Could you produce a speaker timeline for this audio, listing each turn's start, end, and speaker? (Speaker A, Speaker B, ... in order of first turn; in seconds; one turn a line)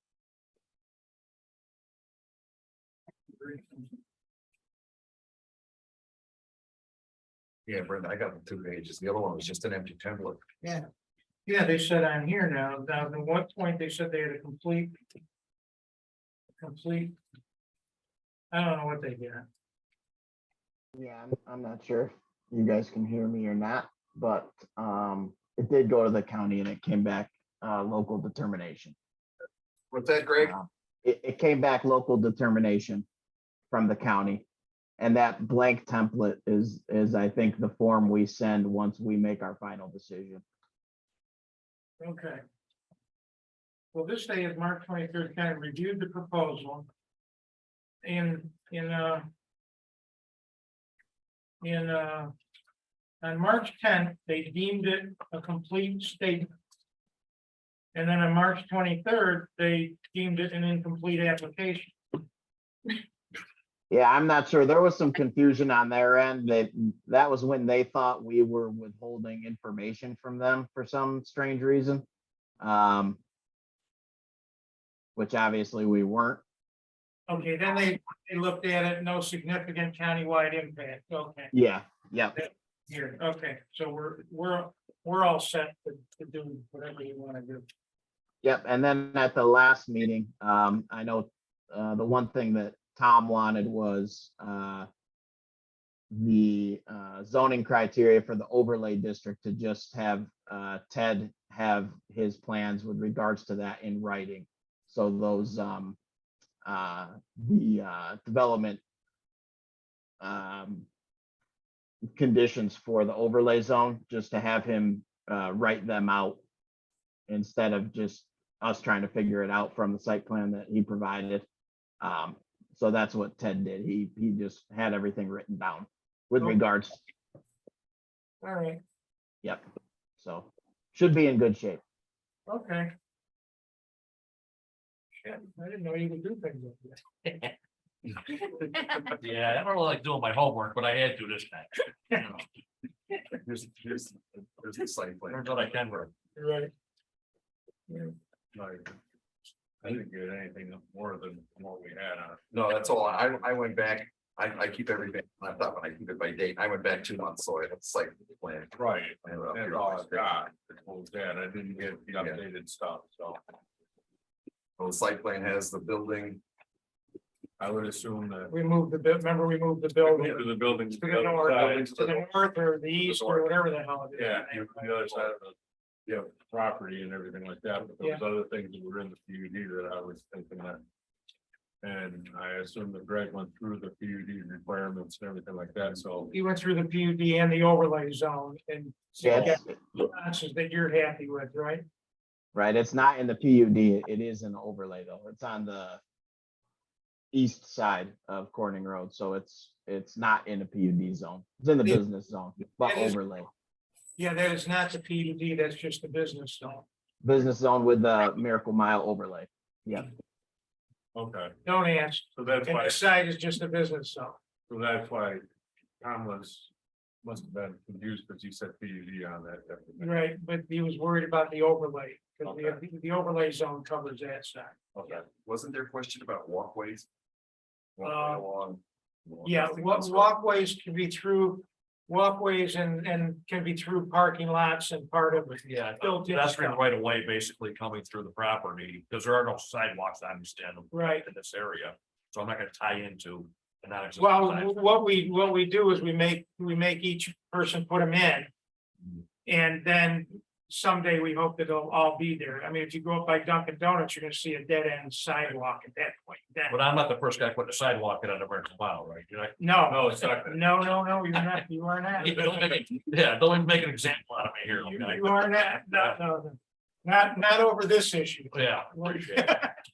Speaker A: 3.4-3.9
Speaker B: 7.7-10.4
Speaker A: 11.5-15.0
Speaker A: 16.6-17.2
Speaker A: 18.5-19.4
Speaker C: 21.0-29.0
Speaker B: 29.9-30.5
Speaker C: 30.4-33.1
Speaker C: 33.7-34.5
Speaker C: 35.0-40.4
Speaker A: 42.0-42.4
Speaker A: 43.9-46.9
Speaker A: 48.0-49.3
Speaker A: 51.6-52.3
Speaker A: 53.2-56.5
Speaker A: 57.9-62.0
Speaker C: 63.9-72.0
Speaker C: 72.6-73.2
Speaker C: 75.2-76.4
Speaker A: 77.3-81.5
Speaker C: 81.5-82.4
Speaker A: 82.4-87.7
Speaker C: 88.4-94.9
Speaker C: 96.1-106.0
Speaker C: 106.7-108.8
Speaker C: 110.2-110.9
Speaker C: 112.2-116.4
Speaker C: 117.3-121.5
Speaker C: 122.0-127.0
Speaker A: 128.4-128.8
Speaker C: 130.2-131.8
Speaker A: 132.5-132.9
Speaker A: 135.2-137.0
Speaker D: 138.9-142.3
Speaker B: 143.3-145.8
Speaker D: 145.3-146.1
Speaker A: 146.4-146.7
Speaker E: 148.5-148.9
Speaker E: 149.8-152.4
Speaker B: 152.5-160.4
Speaker E: 158.8-163.4
Speaker B: 162.1-162.4
Speaker B: 164.8-166.4
Speaker E: 167.6-168.5
Speaker A: 168.5-174.9
Speaker E: 170.1-172.1
Speaker B: 171.7-172.2
Speaker B: 173.1-173.5
Speaker E: 174.1-175.6
Speaker E: 176.1-180.8
Speaker E: 181.8-186.3
Speaker A: 186.3-191.8
Speaker C: 189.2-189.7
Speaker C: 192.5-196.0
Speaker C: 197.3-203.5
Speaker A: 202.8-203.2
Speaker A: 204.2-206.9
Speaker C: 207.2-210.1
Speaker E: 211.2-211.6
Speaker A: 211.7-214.4
Speaker E: 212.3-213.0
Speaker E: 214.7-215.4
Speaker E: 216.0-216.7
Speaker E: 217.2-220.2
Speaker A: 220.0-225.2
Speaker E: 222.4-222.8
Speaker B: 225.1-227.1
Speaker B: 228.0-230.3
Speaker A: 228.0-228.5
Speaker A: 229.4-236.8
Speaker D: 235.6-244.8
Speaker A: 240.9-241.3
Speaker A: 244.2-248.5
Speaker A: 249.5-256.8
Speaker D: 256.7-259.7
Speaker A: 259.6-262.8
Speaker E: 259.9-260.7
Speaker D: 262.2-266.2
Speaker A: 264.7-269.7
Speaker D: 268.5-269.7